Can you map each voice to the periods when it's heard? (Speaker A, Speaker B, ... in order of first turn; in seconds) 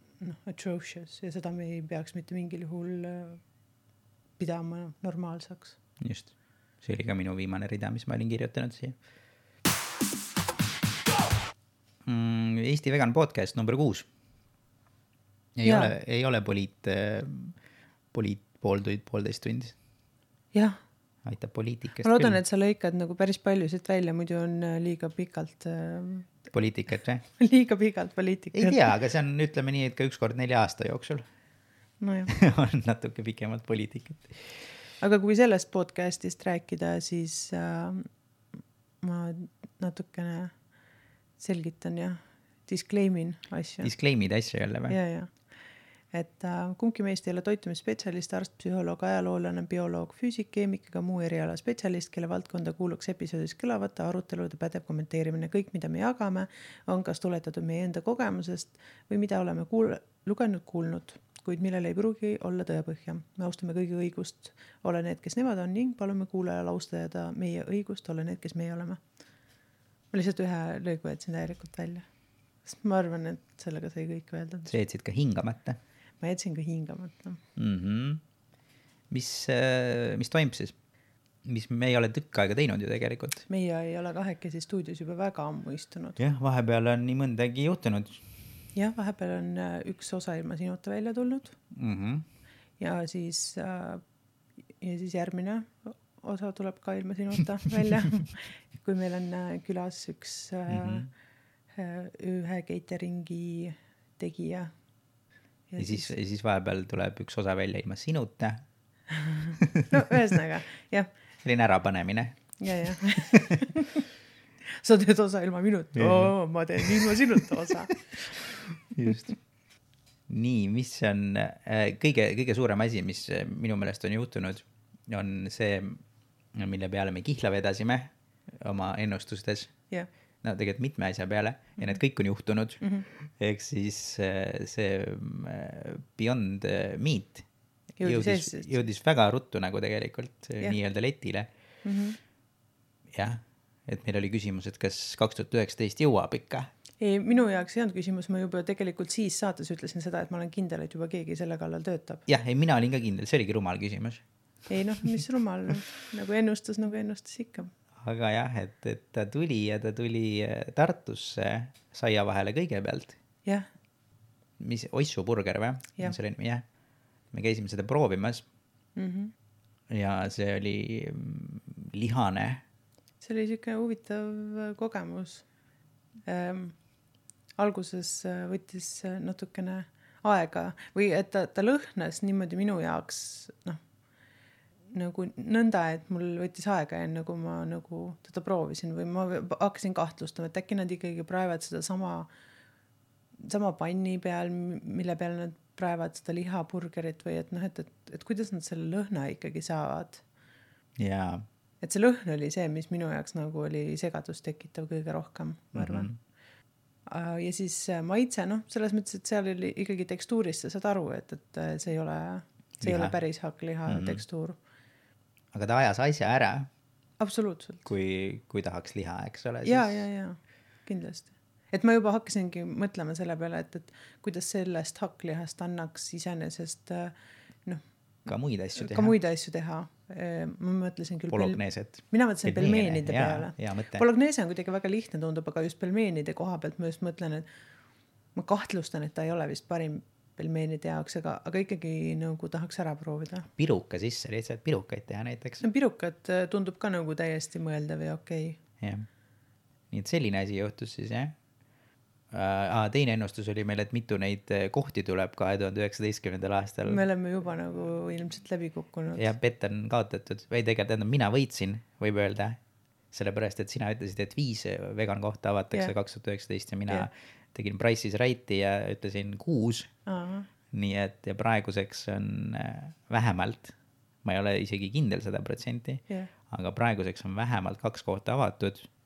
Speaker A: 0.2-3.4, 4.4-5.8, 15.6-15.9, 22.0-26.4, 27.4-28.9, 32.0-32.3, 35.0-38.1, 39.0-40.5, 41.4-43.9, 44.9-45.5, 46.1-69.0, 70.1-72.0, 72.7-74.7, 76.2-77.4, 83.5-86.2, 88.8-91.5, 92.8-94.0, 94.8-101.1, 101.8-104.7, 105.7-106.1, 109.1-111.1, 112.6-114.0, 114.7-118.4, 138.0-138.7, 141.8-142.2, 147.0-152.2, 154.7-157.7, 169.0-169.3, 173.2-175.4, 176.3-176.8, 177.6-183.8, 184.9-192.3, 193.4-200.2, 201.8-206.1, 207.1-214.6, 217.2-217.9, 219.7-227.1, 228.8-237.4, 238.3-243.5, 245.6-248.6, 256.9-259.3, 270.1-270.5
Speaker B: 6.0-9.0, 12.1-14.1, 15.6-17.6, 18.1-19.8, 21.2-22.4, 26.5-27.2, 28.5-31.3, 32.3-34.6, 43.8-45.0, 74.7-75.8, 77.6-78.2, 79.1-80.8, 81.4-83.5, 86.2-88.2, 91.7-92.2, 100.7-101.1, 105.8-108.6, 109.6-109.9, 111.4-112.6, 113.3-113.7, 116.0-117.4, 118.3-119.3, 120.3-126.0, 126.5-129.7, 130.4-137.5, 138.0-141.5, 143.1-146.7, 152.3-154.2, 158.0-163.2, 164.6-166.6, 167.3-168.5, 169.9-172.6, 201.0-201.4, 205.8-206.2, 212.8-213.2, 213.9-214.2, 215.5-216.7, 217.9-220.1, 228.3-229.2, 231.3-234.0, 243.6-245.6, 248.8-249.1, 249.9-251.4, 252.3-257.0, 259.2-262.6, 263.1-269.9, 270.7-278.9